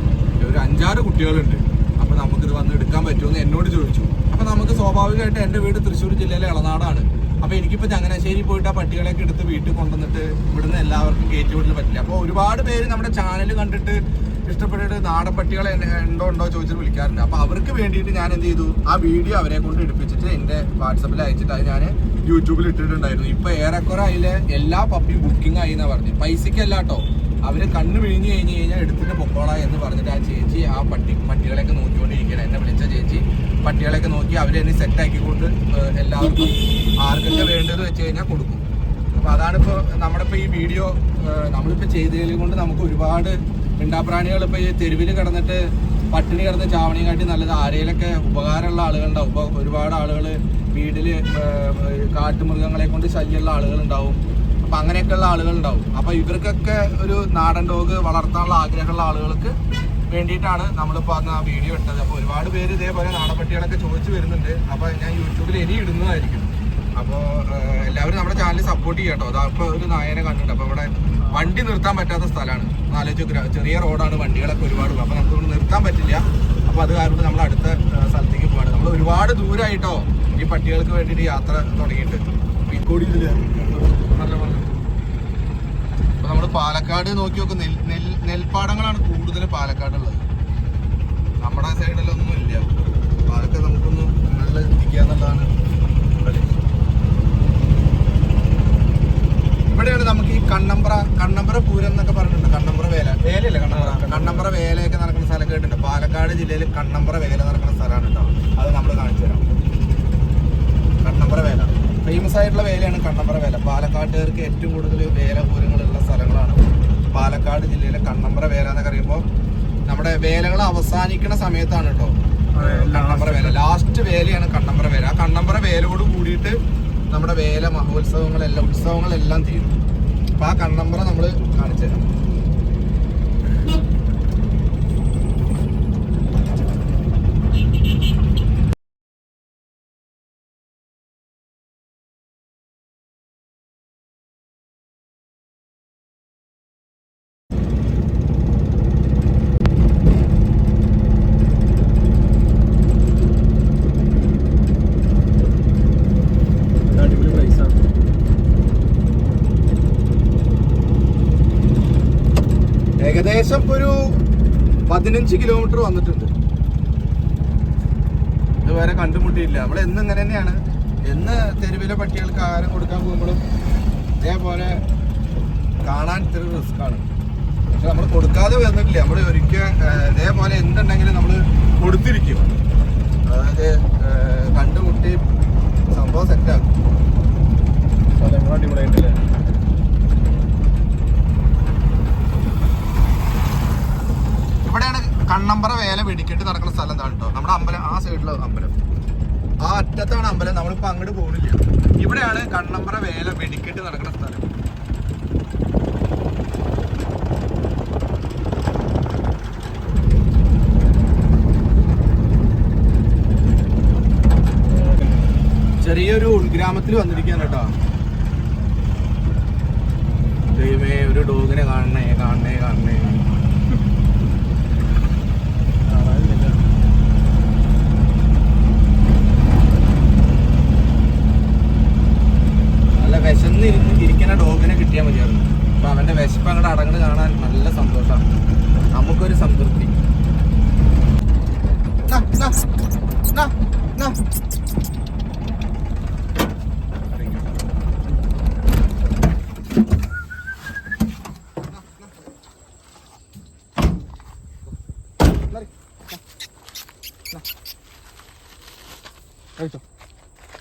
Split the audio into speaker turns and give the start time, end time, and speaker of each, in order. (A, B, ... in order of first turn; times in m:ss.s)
0:00.4-0:59.5 A
1:00.1-1:23.6 A
1:11.3-1:11.6 B
1:23.8-1:24.7 B
1:26.2-1:30.2 A
1:31.4-1:32.7 A
1:33.2-1:35.5 A
1:36.2-1:36.6 A
1:39.7-1:49.4 A
1:43.7-1:44.5 B
1:51.0-1:59.2 A
1:59.9-2:06.6 A
2:02.5-2:03.6 B
2:07.1-2:09.8 A
2:10.4-2:12.0 A
2:36.9-2:37.8 B
2:43.0-2:44.0 A
2:44.9-2:46.3 A
2:48.6-2:53.4 A
2:54.2-2:54.8 A
2:55.8-2:57.1 A
2:57.7-3:02.5 A
3:03.2-3:05.2 A
3:05.9-3:06.7 A
3:08.2-3:09.2 B
3:14.6-3:18.8 A
3:19.6-3:24.5 A
3:34.7-3:35.3 B
3:35.8-3:37.7 A
3:40.5-3:43.3 A
3:45.9-3:46.6 B
3:53.0-3:58.2 A
3:58.9-4:00.0 A
4:02.1-4:02.6 A
4:03.3-4:04.2 A
4:07.1-4:07.5 A
4:11.7-4:12.0 A
4:15.5-4:16.2 A
4:19.6-4:19.8 B